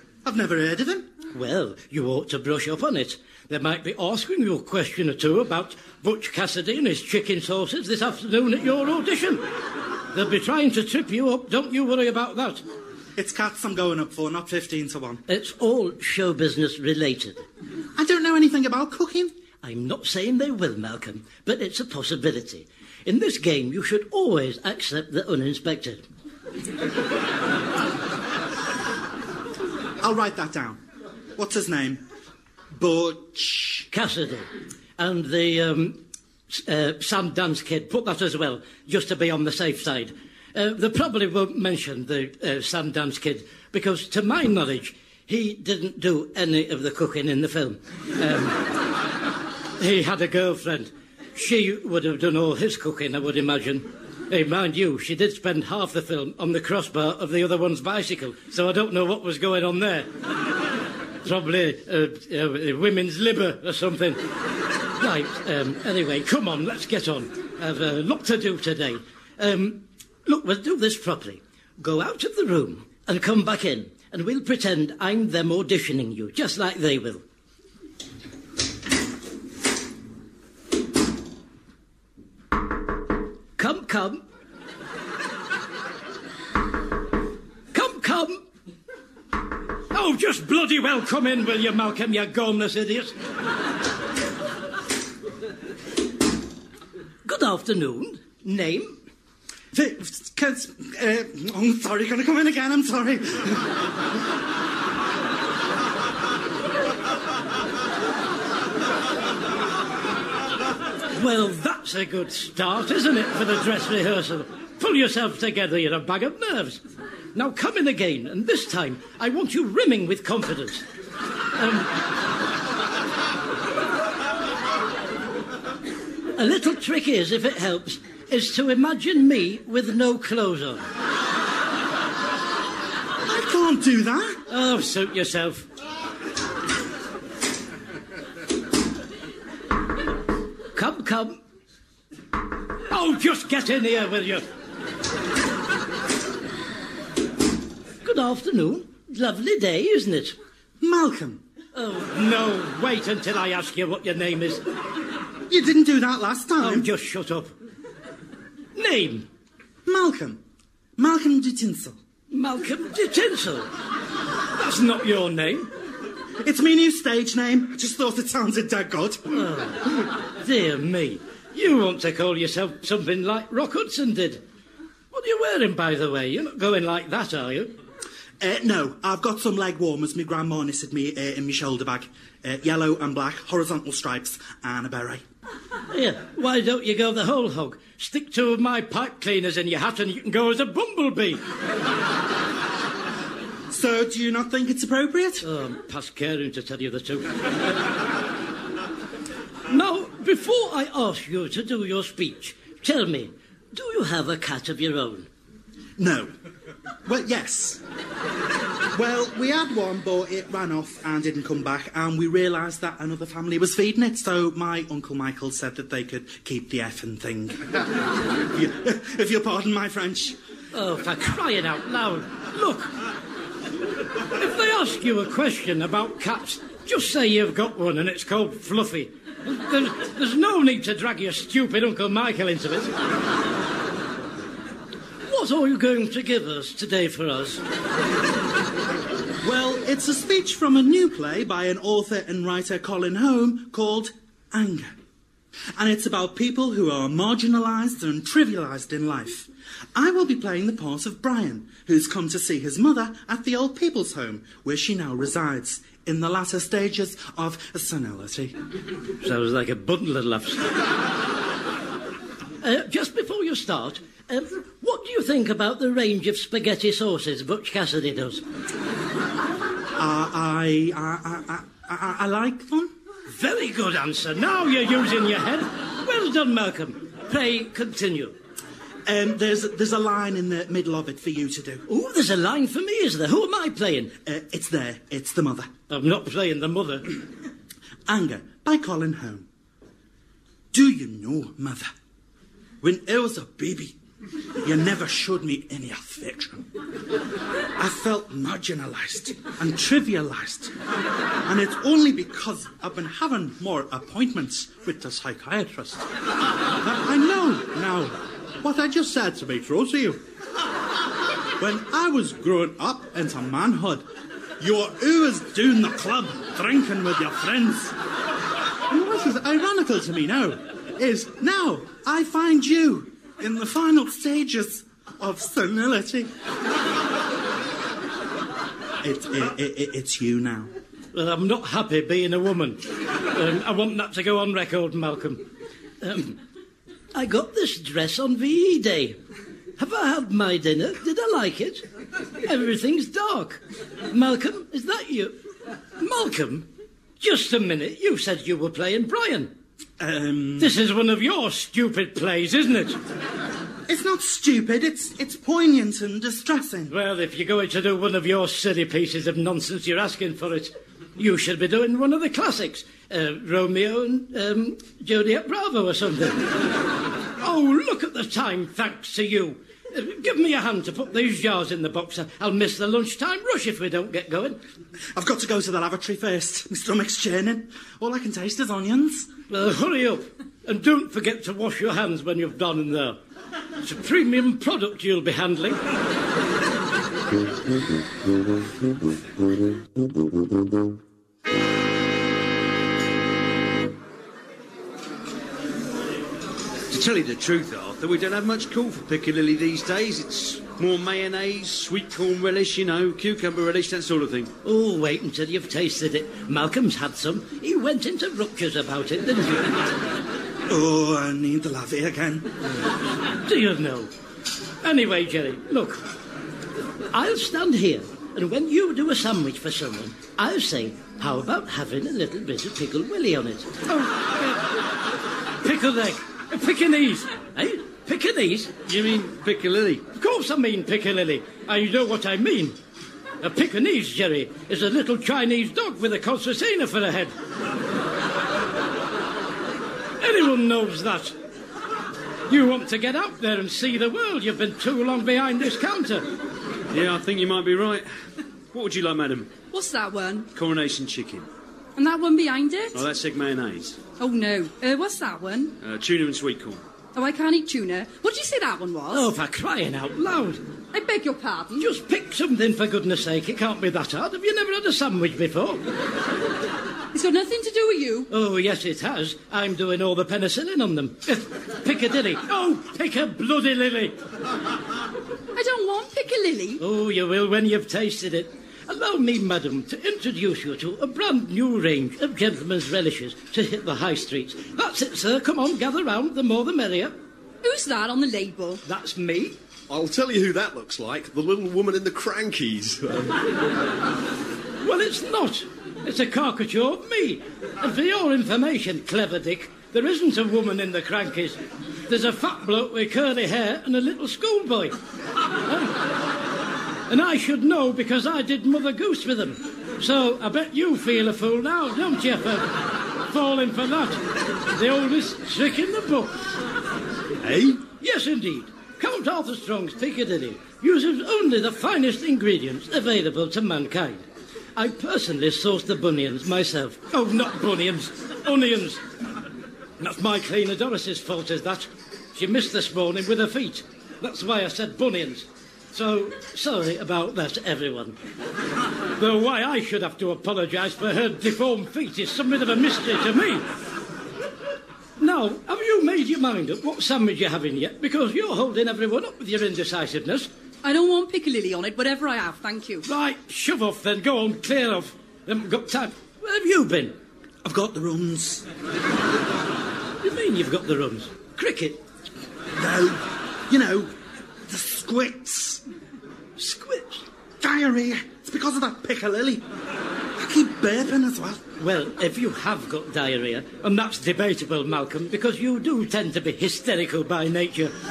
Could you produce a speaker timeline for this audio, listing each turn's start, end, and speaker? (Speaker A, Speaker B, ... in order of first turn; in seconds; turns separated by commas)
Speaker A: 0.2-1.1, Speaker B: 1.3-9.4, Speaker B: 10.1-12.6, Speaker A: 13.2-15.2, Speaker B: 15.3-17.4, Speaker A: 18.0-19.3, Speaker B: 19.6-26.1, Speaker A: 30.0-30.8, Speaker A: 31.4-32.0, Speaker A: 32.8-33.9, Speaker B: 33.9-34.5, Speaker B: 35.0-48.6, Speaker B: 49.8-60.1, Speaker B: 61.2-64.2, Speaker B: 65.0-77.2, Speaker B: 83.6-84.2, Speaker B: 87.7-88.4, Speaker B: 89.9-93.2, Speaker B: 97.2-99.0, Speaker A: 99.7-103.8, Speaker B: 111.1-116.8, Speaker B: 117.3-120.8, Speaker B: 121.6-121.9, Speaker B: 126.3-130.8, Speaker A: 133.2-134.4, Speaker B: 134.5-135.7, Speaker B: 140.8-141.4, Speaker B: 142.9-144.4, Speaker B: 148.0-150.4, Speaker A: 150.8-151.4, Speaker B: 151.7-154.6, Speaker A: 155.5-156.9, Speaker B: 156.6-157.5, Speaker B: 158.8-159.3, Speaker A: 159.9-160.4, Speaker A: 161.0-162.0, Speaker B: 162.3-163.7, Speaker B: 164.6-165.7, Speaker A: 166.4-169.4, Speaker B: 169.3-174.4, Speaker B: 175.1-177.7, Speaker A: 178.4-185.2, Speaker B: 185.9-191.4, Speaker A: 193.7-195.5, Speaker B: 195.4-197.5, Speaker B: 199.7-205.3, Speaker A: 206.0-206.3, Speaker A: 207.1-207.8, Speaker A: 208.9-217.9, Speaker A: 218.5-220.4, Speaker B: 220.7-222.9, Speaker B: 224.4-232.9, Speaker B: 235.3-237.6, Speaker A: 239.4-244.9, Speaker A: 245.8-258.6, Speaker B: 259.2-260.6, Speaker B: 262.6-268.4, Speaker A: 270.0-272.9, Speaker B: 273.4-278.4, Speaker A: 279.1-281.8, Speaker B: 281.9-284.1, Speaker A: 284.2-285.7, Speaker B: 285.9-287.1, Speaker A: 288.1-289.5, Speaker A: 290.7-291.9, Speaker A: 292.8-294.0, Speaker A: 294.6-296.7, Speaker A: 297.8-300.7, Speaker A: 301.4-306.1, Speaker A: 306.8-310.2, Speaker A: 311.6-314.0, Speaker A: 314.6-318.0, Speaker A: 318.9-326.3, Speaker A: 329.0-330.7, Speaker B: 331.1-335.4, Speaker B: 336.0-336.4, Speaker B: 337.1-339.2, Speaker B: 339.8-341.8, Speaker B: 342.4-345.4, Speaker B: 346.0-346.7, Speaker B: 347.2-349.5, Speaker A: 350.0-350.7, Speaker B: 350.6-353.0, Speaker A: 353.9-356.9, Speaker B: 356.9-366.6, Speaker B: 367.4-374.6, Speaker A: 375.1-379.3, Speaker B: 379.5-383.2, Speaker B: 383.8-385.8, Speaker C: 396.9-404.5, Speaker B: 404.6-409.8, Speaker A: 410.7-412.5, Speaker B: 413.4-414.1, Speaker B: 414.8-416.0, Speaker B: 417.1-424.6, Speaker B: 425.6-428.7, Speaker C: 428.9-430.0, Speaker B: 430.1-432.8, Speaker B: 433.4-437.3, Speaker B: 440.2-441.4, Speaker B: 442.5-446.3, Speaker C: 446.9-448.1, Speaker C: 448.7-449.6, Speaker D: 449.7-450.5, Speaker C: 450.5-451.5, Speaker D: 452.0-453.0, Speaker C: 452.9-454.0, Speaker D: 454.2-455.8, Speaker C: 455.8-456.8, Speaker D: 457.1-459.3, Speaker B: 459.1-460.6, Speaker D: 460.9-461.9, Speaker B: 461.8-465.8, Speaker D: 467.1-468.3, Speaker B: 468.3-474.1, Speaker D: 475.6-476.8, Speaker B: 476.8-487.2, Speaker D: 487.6-488.8, Speaker B: 488.9-489.6, Speaker E: 489.9-493.4, Speaker B: 494.8-504.9, Speaker B: 505.7-505.9, Speaker B: 507.1-514.2, Speaker B: 514.7-516.4, Speaker E: 517.4-517.8, Speaker B: 517.9-524.2, Speaker B: 524.8-529.0, Speaker B: 530.0-538.2, Speaker B: 539.2-543.6, Speaker B: 545.2-550.5, Speaker D: 550.8-553.0, Speaker B: 553.0-557.2, Speaker A: 557.6-558.7, Speaker B: 560.2-562.0, Speaker A: 562.8-564.1, Speaker A: 564.7-565.8, Speaker B: 566.6-567.2, Speaker A: 567.6-569.6, Speaker A: 570.4-571.6, Speaker B: 571.8-577.9